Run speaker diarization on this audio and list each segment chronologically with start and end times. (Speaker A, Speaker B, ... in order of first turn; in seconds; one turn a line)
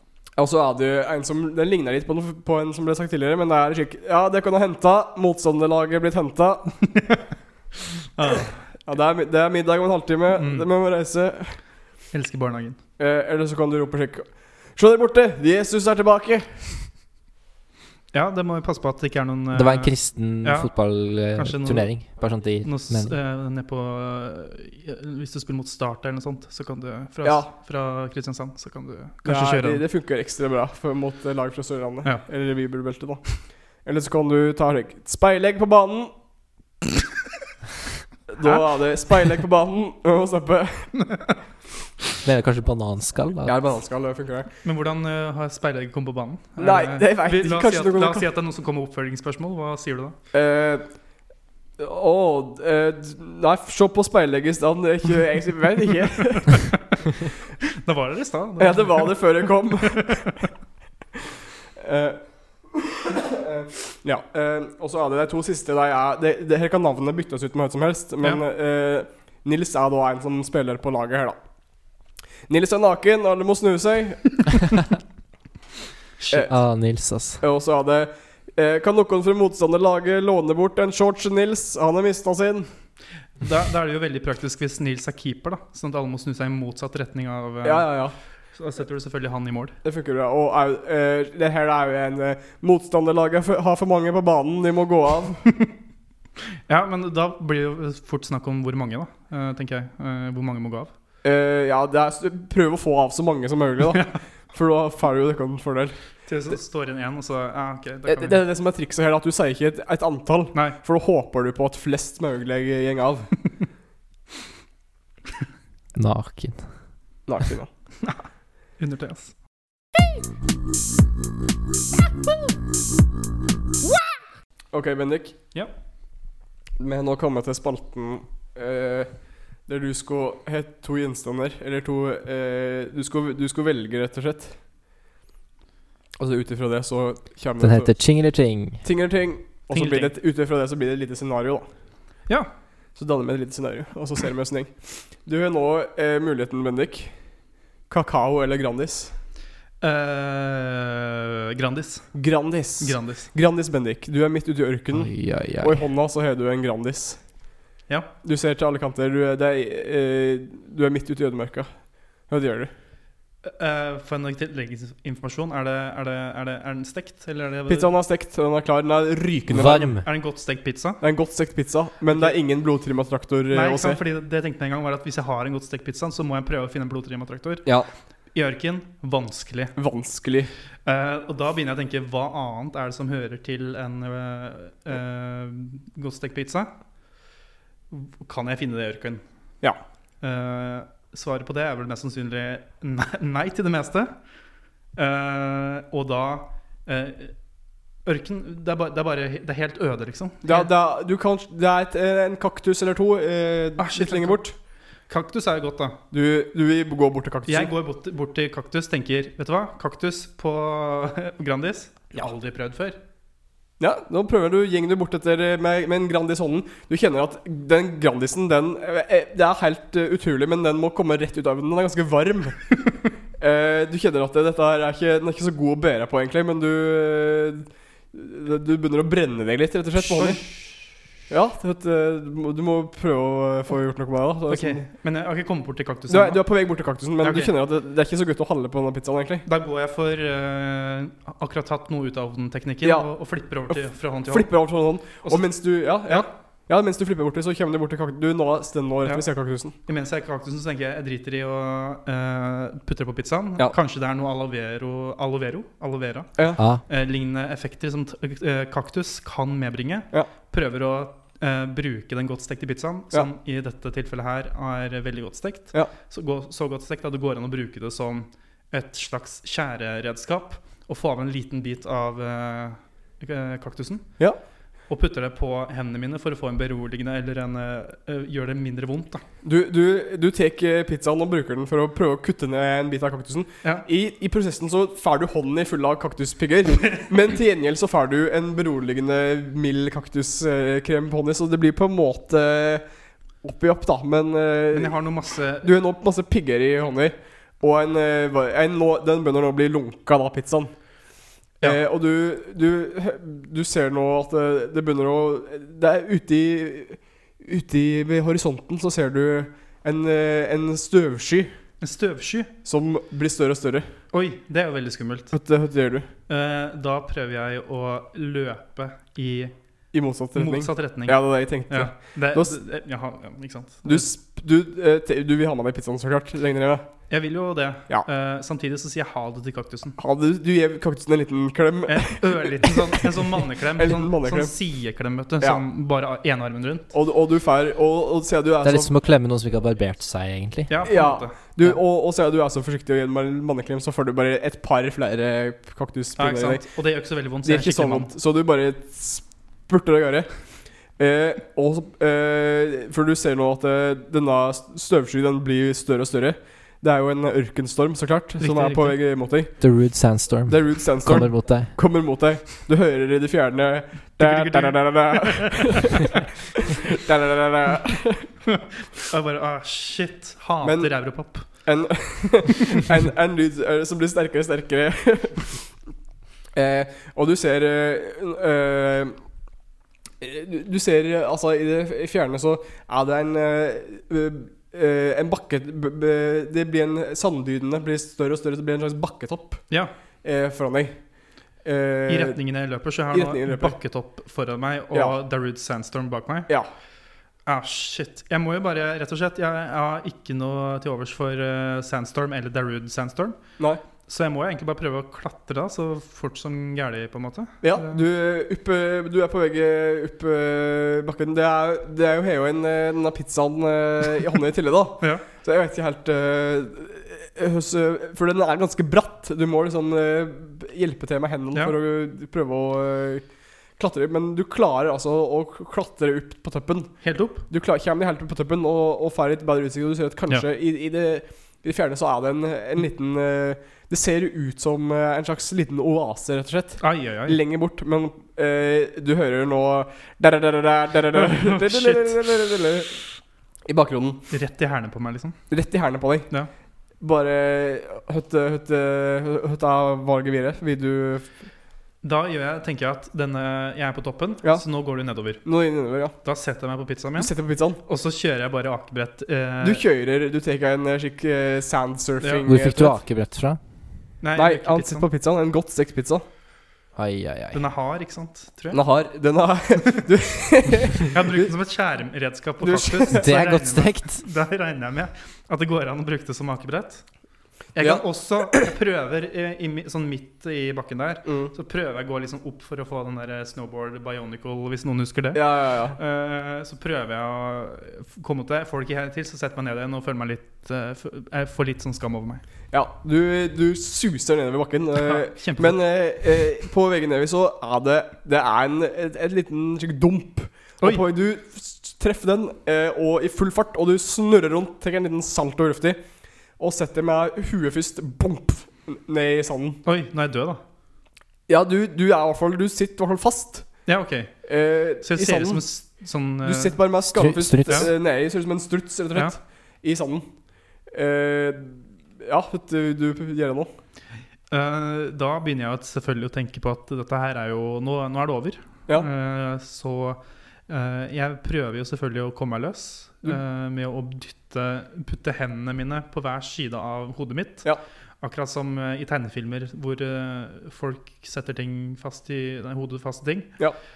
Speaker A: 0.4-6.8
Speaker B: 8.2-8.7
Speaker A: 8.8-11.6
Speaker B: 10.3-10.7
Speaker B: 12.1-12.8
Speaker A: 13.0-16.9
Speaker B: 18.1-29.8
Speaker C: 19.5-23.2
Speaker A: 27.2-27.5
Speaker A: 29.2-36.1
Speaker A: 38.3-41.0
Speaker C: 42.2-43.5
Speaker A: 43.5-44.5
Speaker B: 44.6-50.2
Speaker A: 46.6-48.2
Speaker A: 50.3-50.9
Speaker A: 51.8-56.6
Speaker B: 56.3-57.0
Speaker B: 57.7-60.4
Speaker A: 58.6-60.3
Speaker A: 61.8-71.4
Speaker A: 72.5-74.4
Speaker C: 76.5-77.4
Speaker A: 77.4-82.7
Speaker B: 83.4-89.8
Speaker A: 87.6-88.2
Speaker A: 89.8-95.5
Speaker B: 96.7-100.9
Speaker A: 101.2-106.0
Speaker B: 106.3-108.4
Speaker A: 108.1-113.3
Speaker C: 116.0-116.7
Speaker A: 117.3-117.7
Speaker B: 118.8-119.3
Speaker A: 124.7-125.4
Speaker A: 126.8-129.1
Speaker A: 129.7-134.6
Speaker A: 136.2-137.9
Speaker C: 137.6-138.8
Speaker A: 138.8-141.7
Speaker B: 139.7-140.1
Speaker A: 143.0-147.2
Speaker A: 147.9-149.1
Speaker B: 149.8-152.1
Speaker A: 152.1-157.2
Speaker B: 152.8-153.3
Speaker C: 154.9-155.8
Speaker A: 158.2-161.7
Speaker A: 162.3-162.7
Speaker B: 163.4-167.9
Speaker A: 167.7-170.0
Speaker C: 169.5-170.1
Speaker B: 170.0-171.0
Speaker A: 171.0-174.0
Speaker B: 172.1-172.4
Speaker B: 173.5-177.7
Speaker B: 178.3-179.7
Speaker A: 179.8-180.5
Speaker B: 180.9-186.7
Speaker B: 187.9-189.2
Speaker B: 190.2-194.1
Speaker B: 195.0-197.3
Speaker B: 198.1-200.7
Speaker A: 200.4-204.5
Speaker B: 203.8-204.4
Speaker B: 205.1-206.0
Speaker A: 206.1-207.7
Speaker B: 207.5-213.0
Speaker A: 213.8-222.7
Speaker A: 223.4-230.4
Speaker B: 230.0-230.5
Speaker A: 231.3-234.9
Speaker B: 234.5-237.5
Speaker A: 236.1-239.4
Speaker B: 239.5-244.5
Speaker A: 242.8-243.1
Speaker A: 243.7-249.8
Speaker B: 245.2-246.3
Speaker B: 249.1-274.2
Speaker B: 274.9-279.2
Speaker A: 279.4-292.9
Speaker A: 293.4-295.0
Speaker B: 294.7-295.7
Speaker A: 295.6-300.7
Speaker A: 301.6-311.5
Speaker B: 311.8-312.5
Speaker A: 312.6-313.9
Speaker B: 314.1-315.4
Speaker A: 315.3-316.1
Speaker B: 316.3-319.5
Speaker A: 319.9-322.6
Speaker B: 320.4-324.1
Speaker A: 323.9-326.9
Speaker B: 327.1-330.0
Speaker A: 330.0-333.2
Speaker B: 331.9-336.9
Speaker A: 333.8-334.5
Speaker A: 336.9-338.9
Speaker C: 338.6-340.8
Speaker B: 340.7-341.4
Speaker A: 340.9-346.6
Speaker B: 346.2-348.1
Speaker A: 347.4-350.3
Speaker A: 351.0-359.6
Speaker B: 358.4-359.0
Speaker C: 359.6-361.7
Speaker A: 360.5-368.3
Speaker B: 364.2-366.2
Speaker B: 368.5-371.7
Speaker A: 370.6-375.6
Speaker A: 376.6-379.2
Speaker A: 380.2-389.7
Speaker A: 390.2-391.0
Speaker A: 391.6-392.4
Speaker B: 392.1-396.5
Speaker A: 393.1-393.8
Speaker B: 397.5-403.4
Speaker B: 404.1-408.0
Speaker A: 407.6-423.2
Speaker A: 423.8-426.9
Speaker B: 427.0-427.4
Speaker A: 427.5-443.0
Speaker B: 436.8-437.4
Speaker B: 441.1-442.2
Speaker A: 443.7-444.3
Speaker B: 444.3-445.4
Speaker A: 445.5-446.3
Speaker A: 447.0-451.3
Speaker B: 452.0-455.4
Speaker A: 455.4-456.2
Speaker B: 456.2-459.8
Speaker A: 457.2-457.8
Speaker A: 459.6-463.0
Speaker B: 462.2-462.5
Speaker C: 462.4-463.6
Speaker B: 464.2-465.1
Speaker A: 464.4-466.2
Speaker C: 467.0-467.6
Speaker B: 467.5-468.8
Speaker A: 468.7-471.5
Speaker B: 471.1-477.1
Speaker A: 472.6-473.3
Speaker C: 473.1-474.2
Speaker B: 477.7-492.4
Speaker A: 477.8-478.7
Speaker A: 481.2-481.5
Speaker A: 485.3-486.0
Speaker A: 492.7-506.0
Speaker B: 495.0-495.8
Speaker A: 506.6-509.8
Speaker B: 509.9-510.6
Speaker A: 511.5-513.7
Speaker B: 513.9-514.5
Speaker A: 514.5-515.6
Speaker B: 515.0-516.8
Speaker A: 516.4-520.3
Speaker C: 517.1-517.9
Speaker A: 520.9-523.7
Speaker B: 524.5-543.6